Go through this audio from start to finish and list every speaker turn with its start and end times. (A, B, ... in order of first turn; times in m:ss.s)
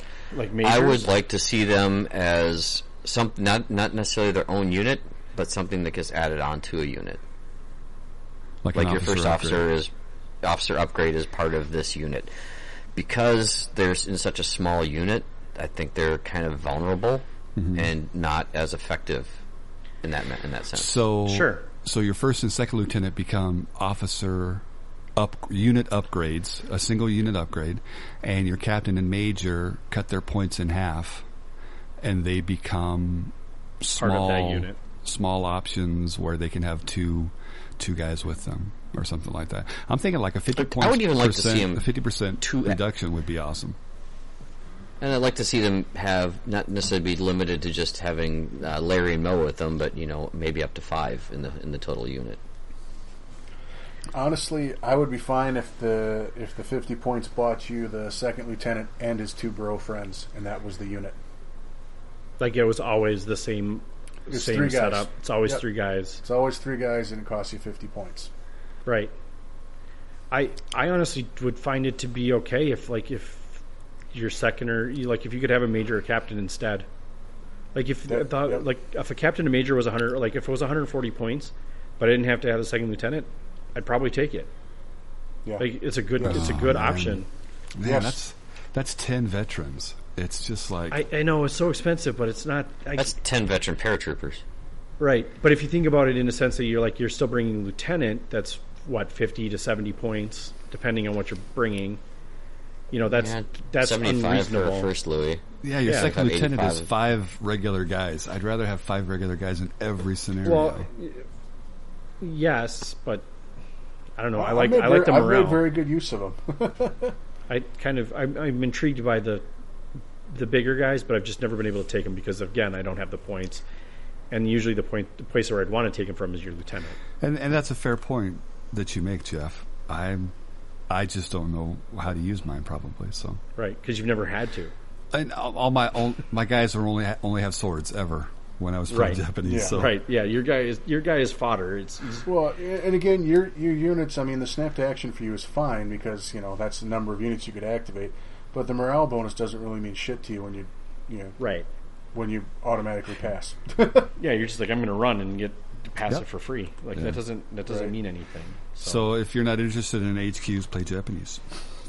0:00.3-0:01.1 A
0:00.6-0:07.2 B
0:08.6-0:09.6 C
0:08.7-0:09.9 B
0:10.4-0:12.3 B
0:12.9-0:19.3 B
0:17.6-0:17.9 C
0:20.0-0:21.0 B
0:20.8-0:24.6 C
0:21.2-0:21.6 A
0:25.2-0:31.2 C
0:32.0-0:43.8 C
0:34.0-0:34.8 A
0:40.6-0:42.8 B
0:45.0-0:52.4 B
0:54.1-1:01.2 D
1:02.4-1:06.2 A
1:04.3-1:05.6 D
1:06.2-1:08.3 D
1:08.8-1:09.1 A
1:10.3-1:13.6 A
1:14.1-1:16.9 A
1:17.7-1:24.5 A
1:18.0-1:18.6 D
1:25.4-1:26.6 D
1:25.6-1:27.3 A
1:26.2-1:27.2 C
1:27.7-1:31.0 C
1:27.8-1:28.2 D
1:30.9-1:33.1 A
1:33.0-1:34.4 B
1:35.0-1:42.0 A
1:42.9-1:44.9 A
1:43.1-1:46.9 B
1:45.6-1:50.9 C
1:45.8-1:46.1 A
1:50.4-1:51.2 A
1:52.2-1:53.2 A
1:54.2-1:55.7 A
1:54.3-1:57.1 D
1:57.5-1:59.4 A
2:00.3-2:03.6 A
2:04.3-2:07.0 A
2:07.2-2:10.3 C
2:10.9-2:13.4 C
2:13.6-2:14.7 A
2:15.1-2:20.0 C
2:18.9-2:22.3 A
2:19.4-2:19.9 D
2:22.2-2:31.4 D
2:31.4-2:31.7 A
2:32.1-2:34.1 D
2:34.2-2:39.0 A
2:37.7-2:37.9 D
2:38.8-2:41.6 C